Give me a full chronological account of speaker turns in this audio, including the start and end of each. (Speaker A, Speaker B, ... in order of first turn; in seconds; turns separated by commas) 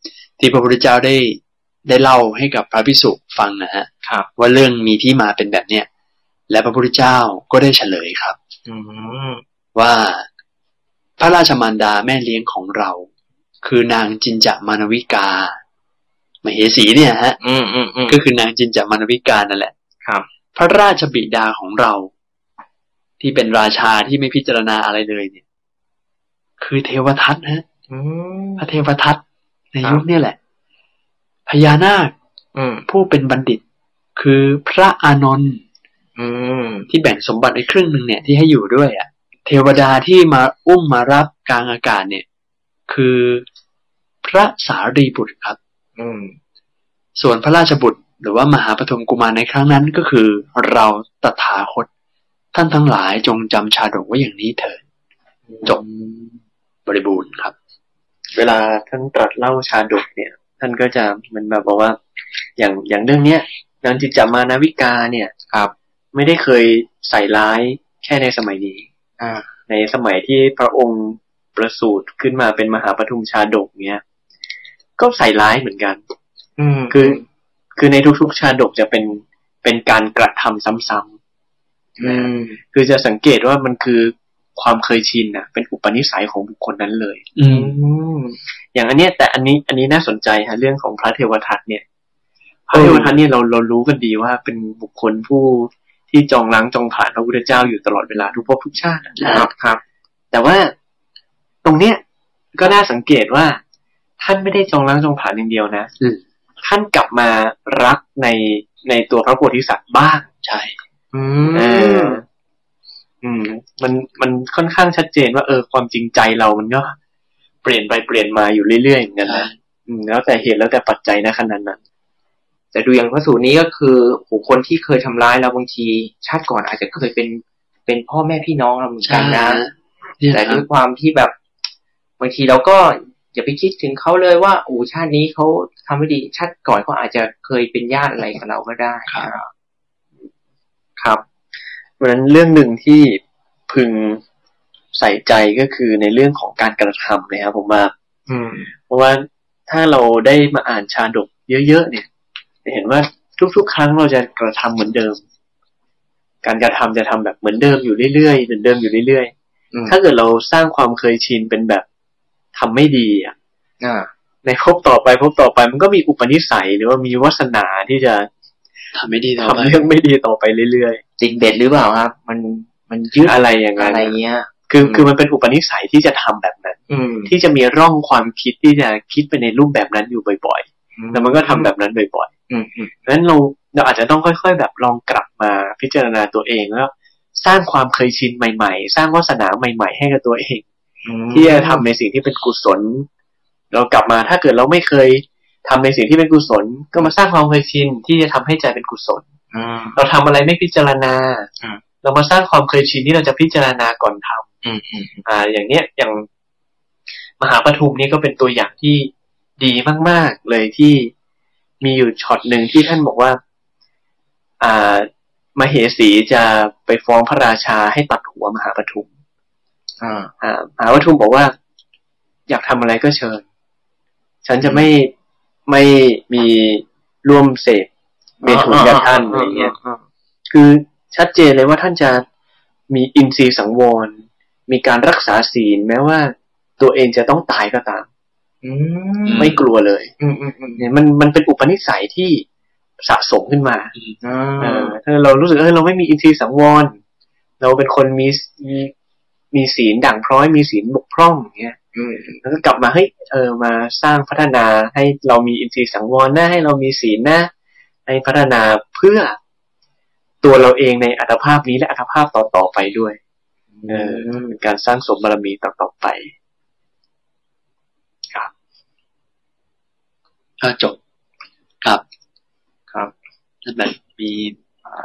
Speaker A: 0.4-5.9, Speaker A: 6.5-8.4, Speaker B: 8.7-9.4, Speaker A: 9.7-10.2, Speaker A: 11.2-13.1, Speaker A: 13.6-15.6, Speaker A: 16.4-17.4, Speaker B: 17.4-18.2, Speaker A: 18.1-19.7, Speaker A: 20.5-22.1, Speaker A: 23.2-25.4, Speaker A: 26.6-27.6, Speaker B: 27.9-28.7, Speaker A: 28.6-29.2, Speaker A: 29.7-30.4, Speaker A: 31.5-32.1, Speaker B: 32.5-32.9, Speaker A: 32.9-33.6, Speaker A: 34.1-35.6, Speaker B: 36.2-36.9, Speaker A: 36.9-42.2, Speaker A: 42.9-43.5, Speaker A: 44.2-45.6, Speaker B: 46.0-46.4, Speaker A: 47.2-51.9, Speaker A: 52.5-54.8, Speaker B: 55.5-56.4, Speaker A: 56.9-57.5, Speaker C: 58.3-62.0, Speaker C: 62.6-65.3, Speaker C: 66.1-68.9, Speaker B: 69.2-69.5, Speaker C: 69.7-74.0, Speaker C: 75.0-76.0, Speaker B: 76.6-77.2, Speaker C: 76.9-77.2, Speaker C: 77.8-81.1, Speaker B: 82.0-82.6, Speaker C: 82.0-87.2, Speaker A: 87.3-87.7, Speaker B: 87.5-88.4, Speaker C: 88.7-91.8, Speaker C: 92.7-99.5, Speaker A: 92.7-93.1, Speaker A: 99.2-99.5, Speaker B: 99.2-99.8, Speaker C: 100.3-100.7, Speaker C: 101.6-102.0, Speaker C: 102.5-103.6, Speaker C: 104.2-105.9, Speaker C: 106.6-110.3, Speaker A: 110.4-110.8, Speaker B: 111.1-112.2, Speaker C: 111.5-112.2, Speaker C: 113.2-117.0, Speaker C: 117.6-121.8, Speaker A: 119.3-119.5, Speaker B: 122.7-129.6, Speaker A: 129.0-130.6, Speaker B: 130.3-131.3, Speaker B: 132.2-139.5, Speaker B: 141.0-141.2, Speaker C: 142.0-144.2, Speaker C: 144.9-147.9, Speaker B: 148.3-148.7, Speaker C: 148.9-152.1, Speaker C: 152.6-155.2, Speaker C: 156.4-159.3, Speaker C: 159.9-161.8, Speaker C: 162.5-163.3, Speaker B: 163.8-164.1, Speaker C: 164.4-168.3, Speaker A: 168.9-169.8, Speaker C: 169.4-171.0, Speaker B: 171.2-175.0, Speaker C: 173.2-174.1, Speaker C: 174.7-182.3, Speaker B: 176.9-177.3, Speaker B: 181.0-181.7, Speaker B: 182.5-182.9, Speaker C: 183.1-190.7, Speaker B: 191.0-191.9, Speaker C: 191.3-193.1, Speaker C: 193.7-199.2, Speaker B: 199.5-200.0, Speaker C: 199.9-201.5, Speaker C: 202.0-204.5, Speaker B: 204.6-205.2, Speaker C: 205.2-206.2, Speaker C: 207.4-211.1, Speaker C: 211.8-213.4, Speaker C: 214.6-219.1, Speaker B: 220.0-220.3, Speaker C: 220.4-221.5, Speaker C: 222.5-223.4, Speaker C: 224.4-225.1, Speaker B: 224.6-224.9, Speaker C: 225.7-227.9, Speaker C: 228.4-229.7, Speaker B: 228.4-230.0, Speaker C: 230.5-232.2, Speaker C: 232.9-238.1, Speaker B: 238.6-239.5, Speaker A: 239.2-239.6, Speaker C: 239.4-240.1, Speaker B: 240.2-240.8, Speaker C: 240.8-242.4, Speaker C: 243.0-243.9, Speaker B: 244.2-245.0, Speaker C: 244.6-247.0, Speaker C: 247.6-248.9, Speaker C: 249.5-251.8, Speaker B: 251.9-252.4, Speaker C: 252.4-257.5, Speaker C: 258.1-259.4, Speaker C: 260.4-263.2, Speaker B: 263.8-264.5, Speaker C: 263.9-266.3, Speaker A: 270.6-271.0, Speaker A: 273.6-274.6